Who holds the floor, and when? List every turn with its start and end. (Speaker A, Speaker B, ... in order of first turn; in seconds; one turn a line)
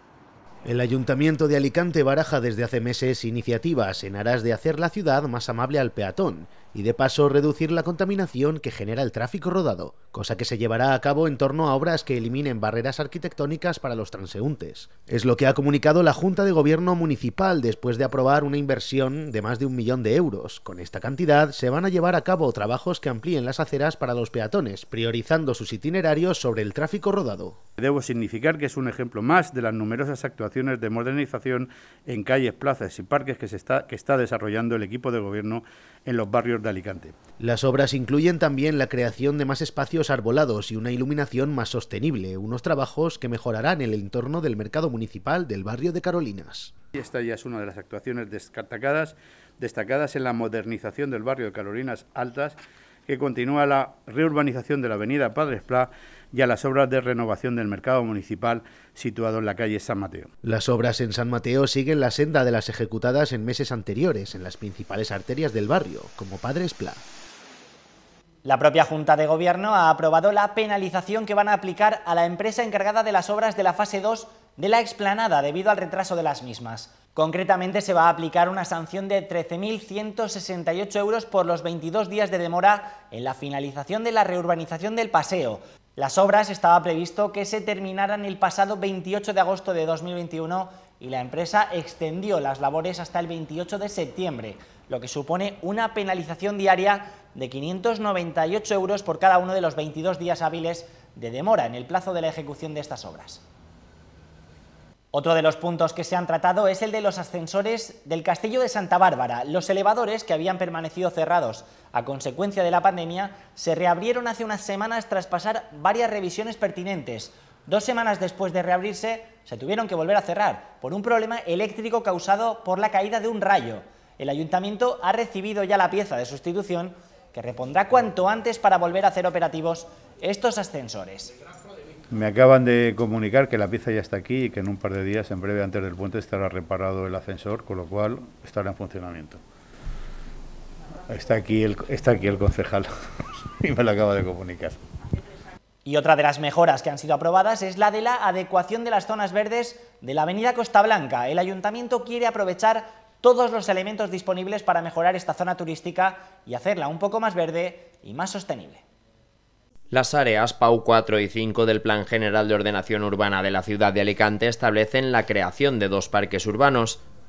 Speaker A: 0.6-27.6
Speaker B: 27.8-37.1
Speaker A: 37.4-46.7
Speaker B: 46.9-60.3
Speaker A: 60.4-67.0
Speaker C: 68.4-103.4
Speaker C: 105.1-131.3
Speaker B: 132.1-139.4
Speaker B: 141.1-142.9
Speaker B: 143.6-144.8
Speaker C: 145.8-158.8
Speaker D: 159.9-167.0